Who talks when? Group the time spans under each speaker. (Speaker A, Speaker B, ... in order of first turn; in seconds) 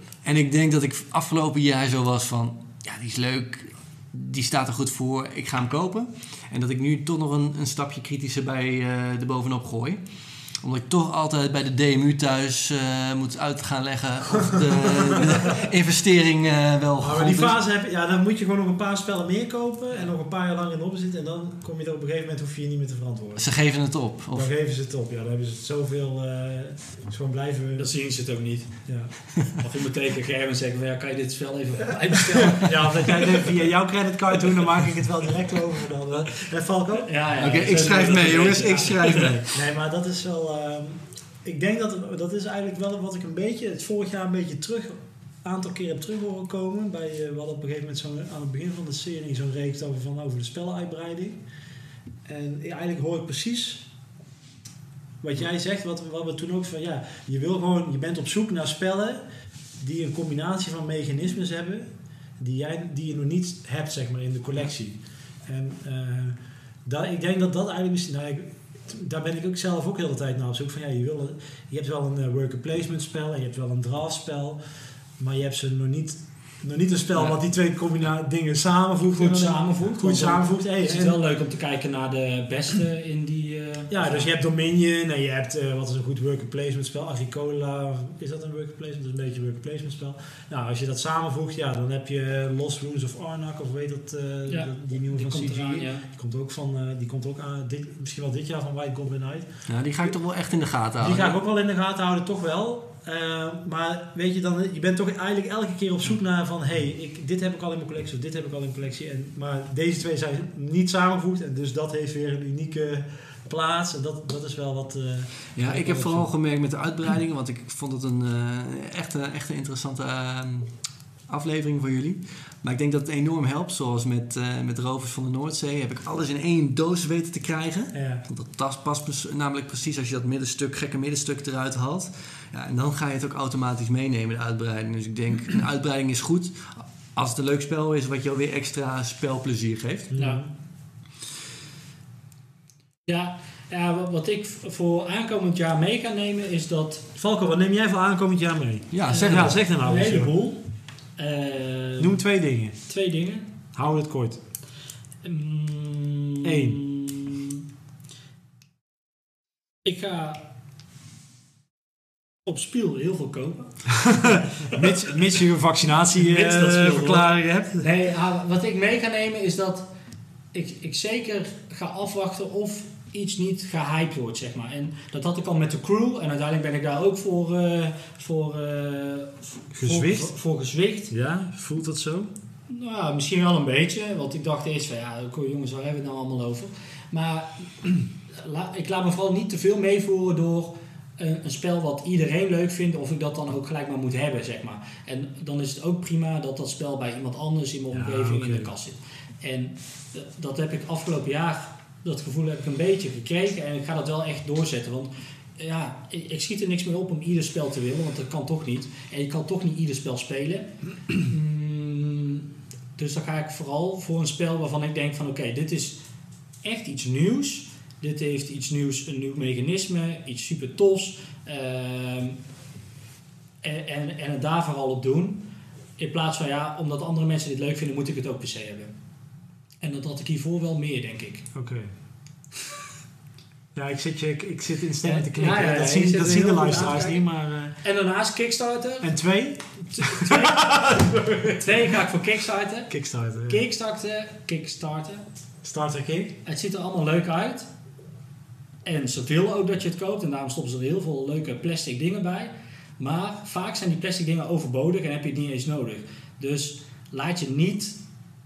Speaker A: 0.2-17.6, 23.4-24.5, 37.4-39.5, 99.7-101.4, 115.5-140.1, 148.9-149.6
Speaker B: 14.4-15.6, 17.0-23.6, 24.3-27.9, 28.9-29.1, 32.5-37.2, 39.5-51.4, 52.2-53.9, 55.2-81.2, 83.9-99.5, 101.0-116.3, 127.9-128.2, 140.1-140.5, 147.1-150.3, 152.0-152.8, 153.7-154.4, 156.4-156.8, 164.6-167.9, 179.7-180.4, 181.1-182.3, 197.9-198.7, 231.5-231.9, 233.7-237.8, 239.0-241.9, 242.9-243.6, 245.6-246.4
Speaker C: 27.8-33.1, 37.0-39.3, 79.1-84.3, 94.5-96.0, 140.1-140.4, 143.1-147.1, 149.1-152.2, 152.8-153.6, 155.2-157.5, 159.8-160.4, 162.4-164.7, 166.2-169.9, 170.5-181.1, 182.7-216.0, 216.6-222.4, 223.6-228.9, 229.8-231.5, 235.0-239.1, 239.8-240.7, 241.5-245.2, 246.4-247.7, 248.8-258.0